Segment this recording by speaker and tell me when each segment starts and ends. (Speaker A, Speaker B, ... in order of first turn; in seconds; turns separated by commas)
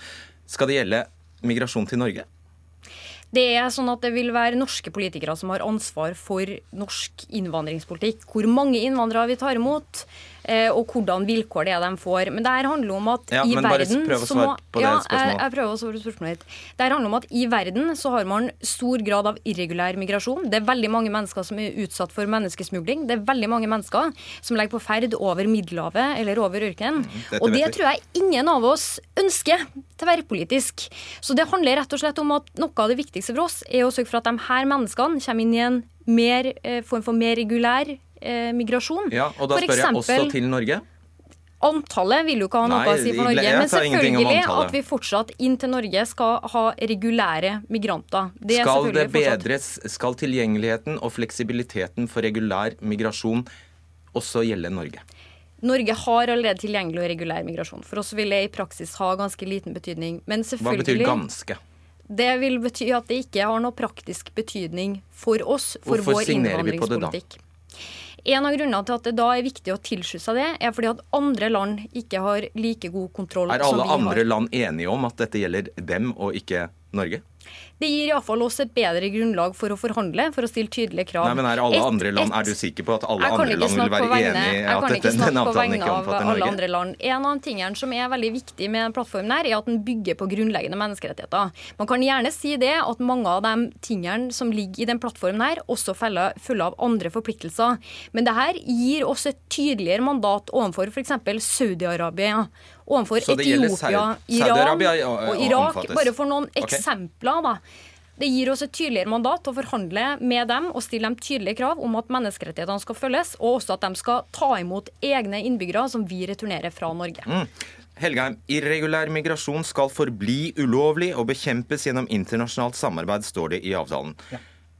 Speaker A: 0.5-2.2, Speaker B: 3.3-40.3, Speaker A: 13.3-15.4, Speaker A: 27.0-27.7, Speaker A: 39.1-40.8, Speaker B: 41.6-49.4, Speaker A: 42.6-44.7, Speaker A: 48.5-53.5, Speaker A: 54.1-55.0, Speaker B: 55.6-61.2, Speaker A: 60.6-61.6, Speaker B: 62.1-67.4, Speaker A: 65.8-67.2, Speaker B: 68.2-74.2, Speaker A: 73.5-77.2, Speaker B: 77.8-82.5, Speaker A: 81.2-86.6, Speaker B: 83.2-107.6, Speaker A: 103.2-106.8, Speaker B: 108.2-117.3, Speaker A: 117.2-124.2